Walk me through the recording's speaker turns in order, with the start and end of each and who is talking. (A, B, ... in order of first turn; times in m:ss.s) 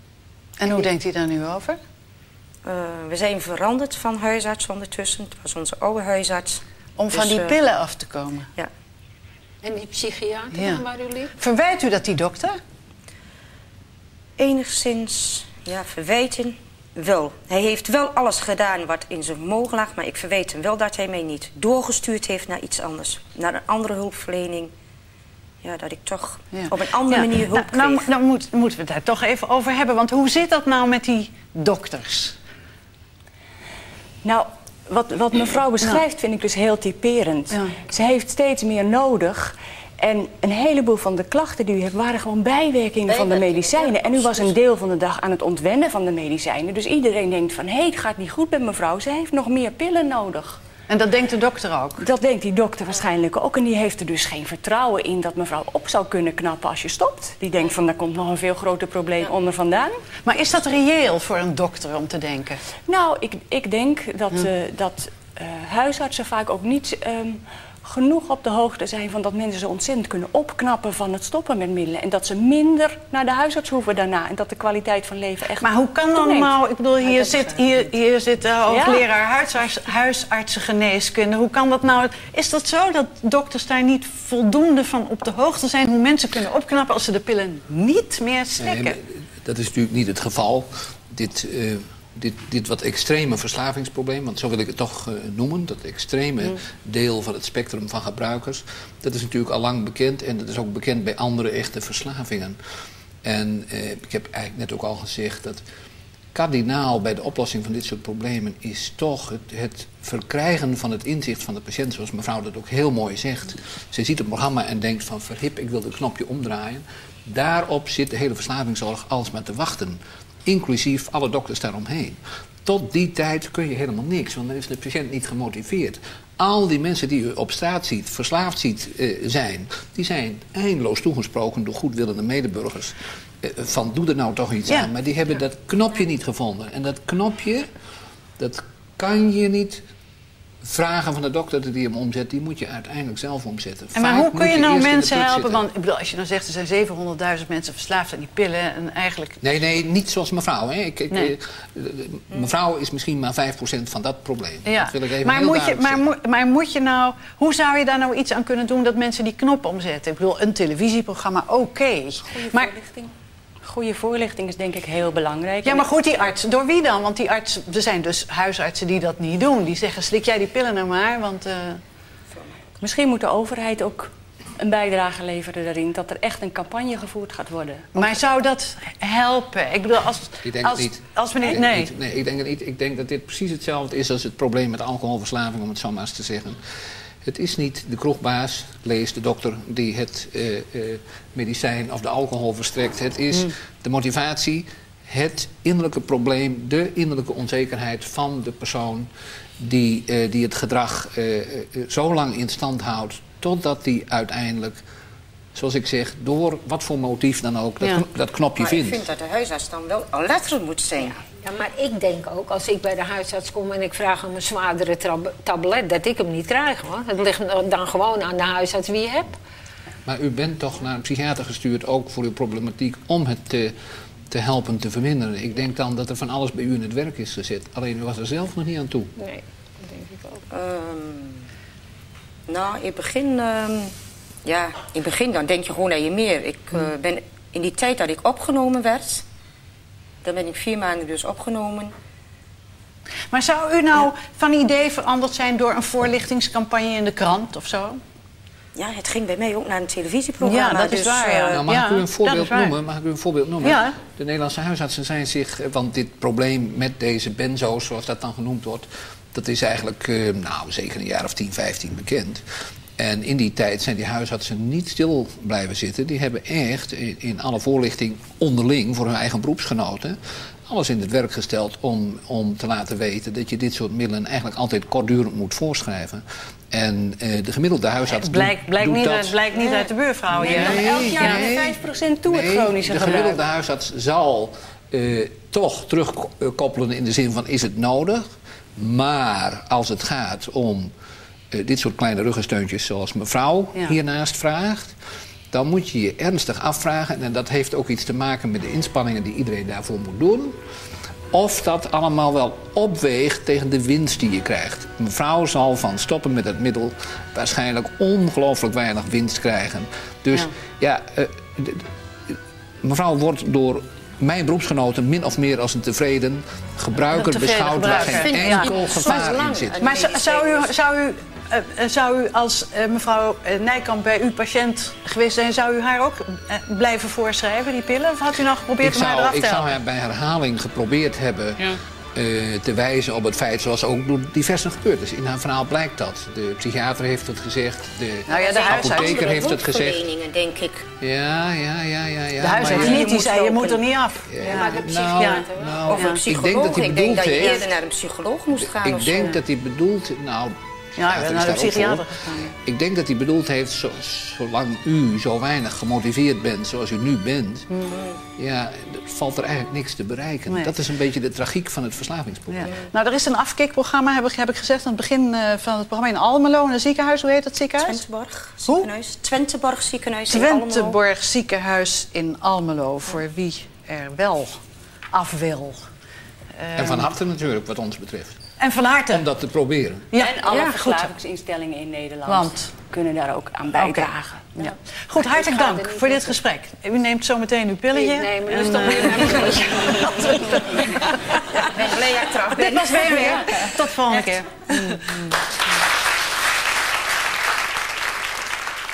0:00.6-0:01.8 A
0:02.6-0:07.6 B
0:07.0-0:08.5 A
0:09.6-0:11.3 C
0:10.5-0:10.8 A
0:11.4-0:12.6 A
0:14.4-0:24.7 B
0:25.6-0:28.1 B
0:26.5-0:32.4 A
0:34.2-0:50.6 D
0:43.1-0:44.4 B
0:50.9-0:52.0 A
0:52.0-1:00.0 D
1:00.2-1:02.6 A
1:02.9-1:16.5 D
1:15.6-1:29.0 A
1:18.7-1:19.1 D
1:28.6-1:42.6 E
1:43.2-1:45.6 E
1:46.3-2:17.7 E
2:18.4-2:19.8 E
2:20.6-2:25.6 E
2:23.9-2:29.4 A
2:29.4-2:36.0 E
2:34.6-2:42.7 A
2:42.2-2:45.9 D
2:45.6-2:51.8 A
2:52.8-2:58.0 D
2:57.9-3:01.9 A
3:00.4-3:06.6 E
3:07.2-3:24.8 E
3:25.5-3:29.0 E
3:28.6-3:31.2 B
3:31.4-3:39.4 C
3:40.0-3:43.7 E
3:44.3-3:49.1 E
3:49.2-3:50.4 C
3:50.5-3:51.5 B
3:52.5-3:53.9 B
3:54.4-3:59.2 B
4:00.2-4:01.9 B
4:03.3-4:08.0 A
4:08.7-4:11.6 B
4:10.4-4:12.7 A
4:11.5-4:22.4 E
4:13.6-4:14.0 A
4:23.0-4:39.4 E
4:38.1-4:41.5 A
4:40.3-4:48.2 E
4:40.4-4:43.4 D
4:48.8-4:50.9 E
4:51.5-4:55.0 E
4:55.5-5:00.6 E
5:01.3-5:19.8 E
5:17.1-5:18.8 A
5:18.0-5:20.7 B
5:19.8-5:29.7 A
5:28.8-5:40.0 E
5:38.3-5:39.3 A
5:38.3-5:40.9 B
5:41.0-5:43.2 E
5:42.4-5:46.2 A
5:42.6-5:43.8 B
5:44.3-5:47.7 E
5:44.4-5:45.9 C
5:45.8-5:49.3 B
5:48.6-5:57.7 E
5:51.0-5:52.5 A
5:57.9-5:58.2 B
5:58.4-6:02.7 E
6:02.5-6:08.0 A
6:07.8-6:11.0 B
6:10.3-6:14.6 A
6:15.1-6:15.9 A
6:16.6-6:17.1 A
6:16.8-6:18.4 E
6:18.6-6:19.2 A
6:19.1-6:20.1 E
6:20.1-6:21.1 A
6:20.1-6:24.5 D
6:20.5-6:20.9 B
6:22.3-6:22.7 A
6:23.8-6:31.7 A
6:25.2-6:26.4 C
6:27.9-6:30.3 C
6:31.5-6:35.3 B
6:32.5-6:35.2 A